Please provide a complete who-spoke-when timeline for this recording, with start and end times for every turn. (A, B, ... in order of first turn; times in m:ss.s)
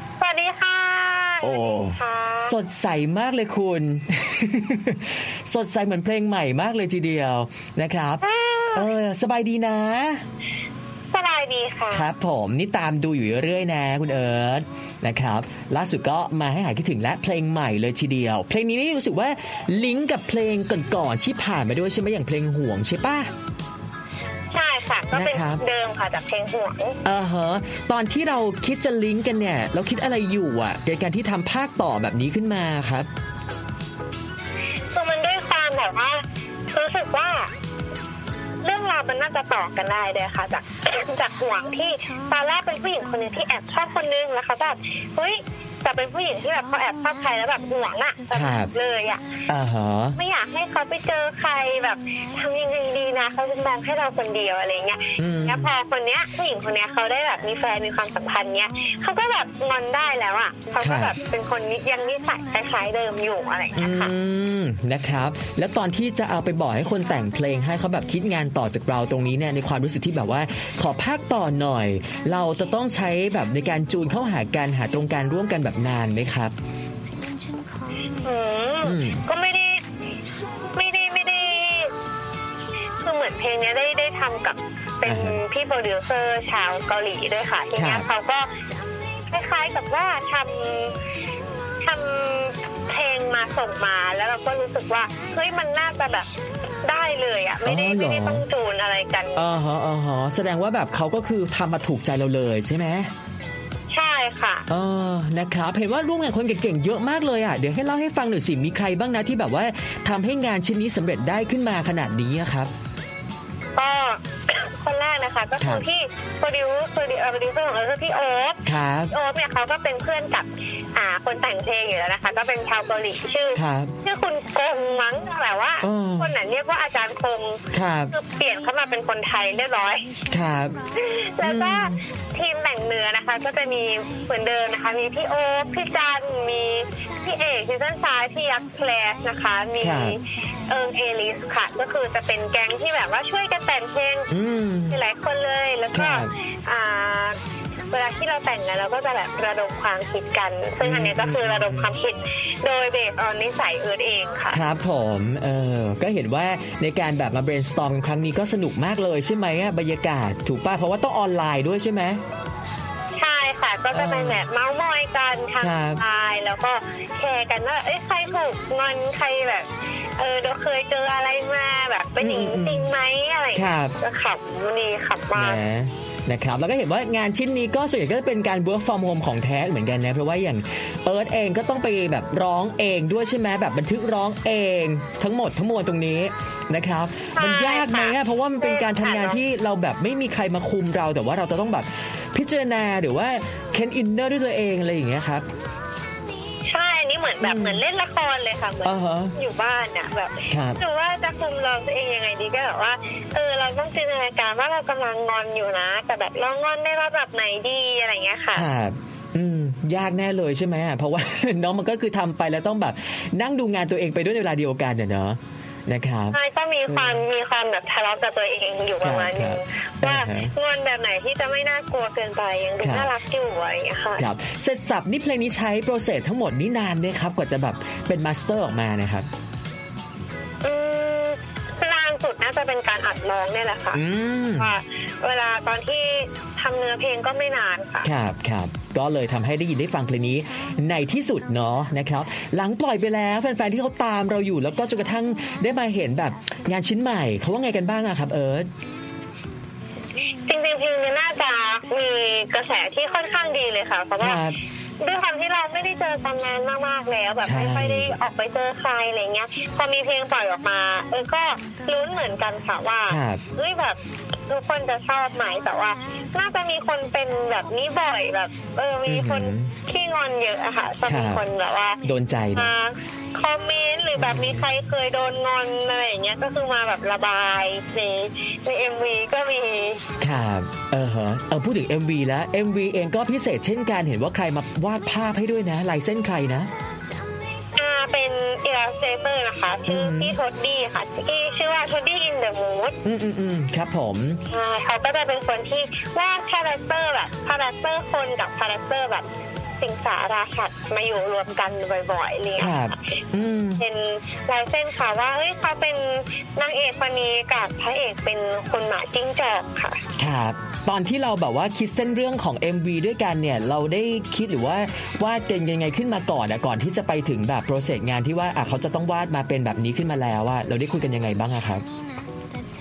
0:00.2-0:02.5 A
0:01.4-0:10.2 B
0:08.2-0:08.8 A
0:11.1-0:12.0 A
0:11.9-0:23.3 B
0:24.5-0:27.0 A
0:25.1-0:25.6 B
0:27.0-0:33.1 B
0:34.9-0:37.5 A
0:38.6-0:49.3 A
0:48.3-0:48.7 B
0:49.4-0:50.2 B
0:50.2-1:04.1 A
0:55.2-0:55.7 B
1:00.8-1:01.2 B
1:03.8-1:16.5 B
1:18.2-1:19.8 A
1:18.8-1:19.3 B
1:20.8-1:21.9 A
1:23.0-1:28.5 A
1:25.0-1:25.4 B
1:27.7-1:28.1 B
1:29.3-1:31.0 A
1:31.8-1:36.3 A
1:36.8-1:39.4 A
1:37.6-1:38.5 B
1:39.3-1:43.1 B
1:43.9-1:44.6 A
1:44.7-1:52.7 B
1:53.8-2:10.1 A
1:55.6-1:55.8 B
1:58.6-1:59.2 B
2:03.5-2:04.0 B
2:05.8-2:06.3 B
2:07.7-2:08.2 B
2:10.2-2:10.8 B
2:10.9-2:24.3 A
2:11.4-2:12.1 B
2:19.8-2:20.2 B
2:24.3-2:25.0 B
2:24.9-2:27.4 A
2:25.9-2:26.3 B
2:27.9-2:34.6 A
2:30.8-2:31.9 B
2:34.5-2:42.2 B
2:43.2-2:55.6 A
2:43.9-2:44.4 B
2:45.6-2:46.0 B
2:52.2-2:52.9 B
2:53.5-2:54.0 B
2:55.4-3:15.4 B
3:07.3-3:09.4 A
3:16.7-3:28.6 A
3:17.4-3:17.8 B
3:18.8-3:19.4 B
3:20.5-3:20.8 B
3:28.5-3:37.3 B
3:36.3-3:44.2 A
3:39.0-3:40.6 B
3:42.8-3:43.1 B
3:44.2-3:49.3 B
3:50.6-3:54.0 A
3:53.9-3:54.7 B
3:54.6-3:58.1 A
3:58.0-4:08.7 B
4:10.4-4:14.3 A
4:14.2-4:14.6 B
4:15.0-4:32.0 A
4:17.4-4:18.2 B
4:23.1-4:23.5 B
4:29.0-4:29.8 B
4:31.0-4:31.4 B
4:32.0-4:32.7 B
4:32.6-4:40.0 A
4:34.1-4:34.7 B
4:40.2-4:46.7 B
4:47.7-4:53.0 A
4:49.8-4:50.4 B
4:53.0-4:54.4 B
4:54.5-4:59.3 A
4:59.8-5:03.1 A
5:02.6-5:03.8 B
5:03.8-5:10.0 A
5:10.2-5:21.8 B